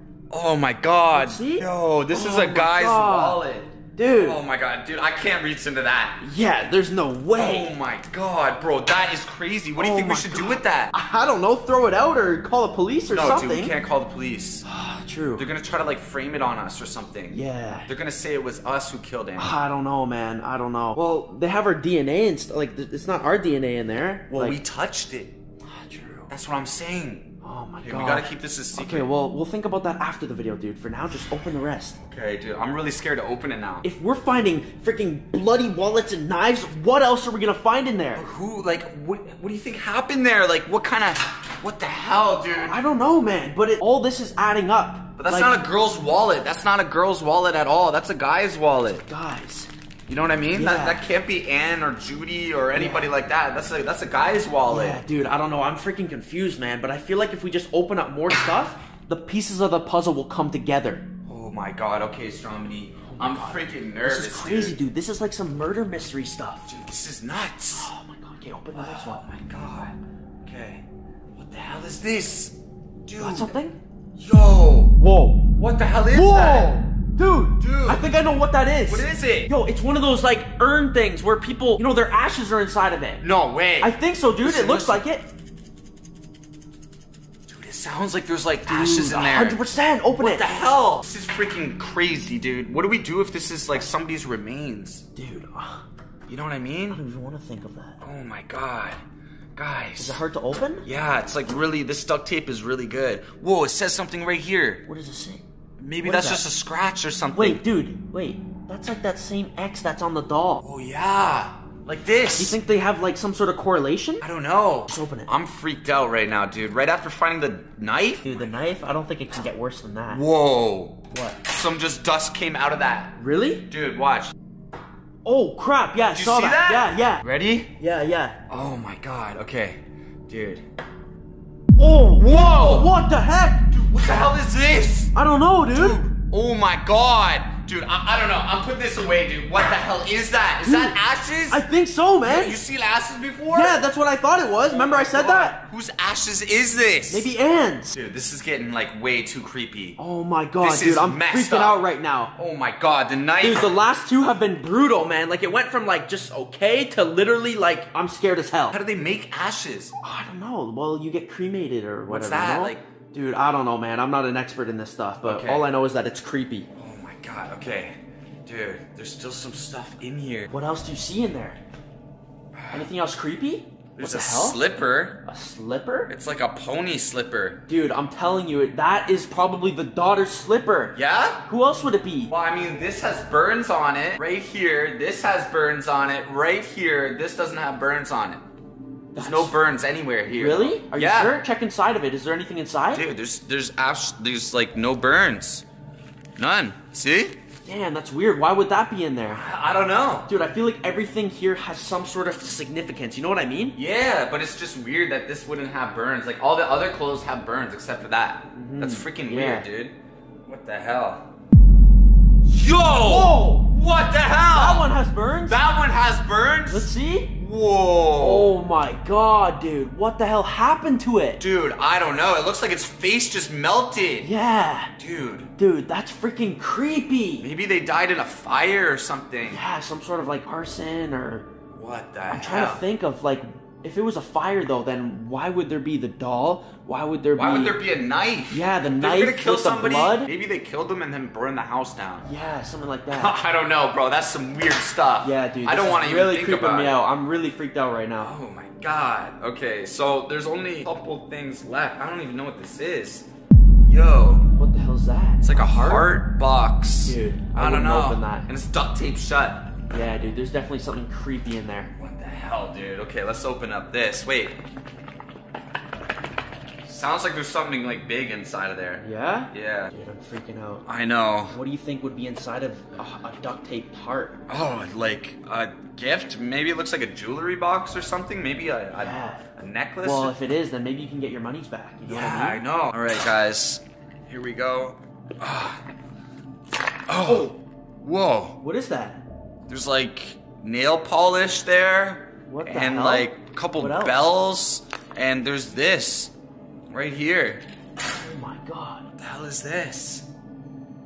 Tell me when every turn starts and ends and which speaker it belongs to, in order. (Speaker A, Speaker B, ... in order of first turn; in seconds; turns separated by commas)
Speaker A: 0.3-6.2, Speaker B: 1.1-3.4, Speaker B: 3.9-4.4, Speaker B: 6.2-7.7, Speaker A: 7.3-10.9, Speaker B: 9.8-13.8, Speaker A: 13.1-14.6, Speaker B: 14.7-15.4, Speaker A: 15.4-19.6, Speaker B: 17.3-17.9, Speaker B: 19.4-24.6, Speaker A: 24.3-25.4, Speaker B: 25.6-26.3, Speaker A: 26.3-29.1, Speaker B: 27.4-32.0, Speaker A: 32.0-33.9, Speaker B: 33.8-38.2, Speaker A: 38.1-42.8, Speaker B: 42.7-45.6, Speaker A: 45.2-49.0, Speaker B: 49.1-49.7, Speaker A: 50.1-55.0, Speaker B: 50.5-51.0, Speaker B: 52.8-53.1, Speaker B: 54.7-61.0, Speaker A: 61.3-64.8, Speaker B: 63.1-66.7, Speaker A: 66.7-67.9, Speaker B: 67.8-69.2, Speaker A: 68.7-70.8, Speaker A: 71.4-73.6, Speaker B: 73.2-73.8, Speaker A: 74.2-75.0, Speaker B: 75.0-75.5, Speaker A: 75.5-76.9, Speaker B: 76.1-83.2, Speaker A: 77.6-78.1, Speaker A: 78.9-79.5, Speaker A: 83.2-85.0, Speaker B: 83.8-85.2, Speaker A: 87.5-95.0, Speaker B: 88.7-90.5, Speaker B: 95.2-95.8, Speaker A: 96.3-97.0, Speaker B: 96.9-98.0, Speaker A: 98.0-99.0, Speaker A: 99.6-100.2, Speaker B: 100.0-100.9, Speaker A: 100.9-104.8, Speaker B: 104.9-105.4, Speaker A: 105.8-107.6, Speaker B: 106.0-106.5, Speaker B: 107.3-110.6, Speaker A: 110.6-112.6, Speaker B: 112.4-114.2, Speaker A: 114.2-118.5, Speaker B: 114.9-115.3, Speaker B: 118.2-120.2, Speaker A: 120.1-123.2, Speaker B: 121.1-121.4, Speaker B: 123.2-123.7, Speaker A: 123.7-124.3, Speaker B: 125.2-127.2, Speaker A: 126.1-127.7, Speaker B: 127.8-128.4, Speaker A: 128.5-130.7, Speaker B: 131.8-133.7, Speaker A: 132.1-132.9, Speaker A: 133.7-135.1, Speaker B: 135.1-136.0, Speaker A: 135.7-141.7, Speaker B: 140.6-141.0, Speaker B: 141.5-142.6, Speaker A: 142.2-143.8, Speaker B: 143.5-145.6, Speaker A: 144.7-147.3, Speaker B: 147.1-148.0, Speaker A: 147.9-150.0, Speaker B: 150.0-152.3, Speaker A: 150.6-151.8, Speaker A: 152.4-153.7, Speaker B: 153.4-158.8, Speaker A: 158.7-159.9, Speaker B: 160.0-166.7, Speaker A: 162.1-162.8, Speaker A: 165.2-165.7, Speaker A: 166.8-170.5, Speaker B: 170.5-171.6, Speaker A: 172.5-172.9, Speaker B: 172.7-174.6, Speaker A: 174.0-175.2, Speaker B: 175.2-176.1, Speaker A: 176.1-177.6, Speaker B: 177.7-182.3, Speaker A: 180.9-181.4, Speaker A: 182.3-188.4, Speaker B: 189.1-189.6, Speaker A: 189.2-191.4, Speaker B: 190.3-193.1, Speaker A: 192.9-195.7, Speaker A: 196.4-197.4, Speaker B: 197.7-199.5, Speaker A: 199.3-200.3, Speaker B: 200.3-203.8, Speaker A: 203.8-210.0, Speaker B: 208.6-209.7, Speaker A: 210.5-211.3, Speaker A: 212.4-218.5, Speaker B: 212.9-213.7, Speaker B: 214.5-215.6, Speaker B: 216.7-217.3, Speaker B: 218.2-221.4, Speaker A: 221.4-224.3, Speaker B: 224.2-224.9, Speaker A: 225.0-225.5, Speaker B: 225.6-227.5, Speaker A: 227.4-229.6, Speaker B: 229.5-231.5, Speaker A: 231.7-232.8, Speaker B: 232.3-237.8, Speaker A: 237.3-242.3, Speaker B: 238.5-240.3, Speaker B: 242.2-243.3, Speaker A: 243.2-247.0, Speaker B: 245.2-248.3, Speaker A: 248.2-253.3, Speaker A: 253.9-254.5, Speaker B: 254.6-256.1, Speaker A: 255.4-259.7, Speaker B: 257.0-258.5, Speaker B: 259.9-261.9, Speaker A: 262.0-264.6, Speaker A: 266.9-269.9, Speaker B: 269.0-270.9, Speaker A: 270.9-271.6, Speaker B: 271.5-274.4, Speaker A: 274.5-280.4, Speaker B: 278.9-279.5, Speaker B: 280.0-282.6, Speaker A: 282.1-285.8, Speaker A: 287.1-288.6, Speaker B: 287.3-287.5, Speaker B: 288.6-289.2, Speaker A: 289.7-296.3, Speaker B: 292.5-294.2, Speaker A: 296.9-297.6, Speaker B: 298.2-299.1, Speaker A: 299.2-300.3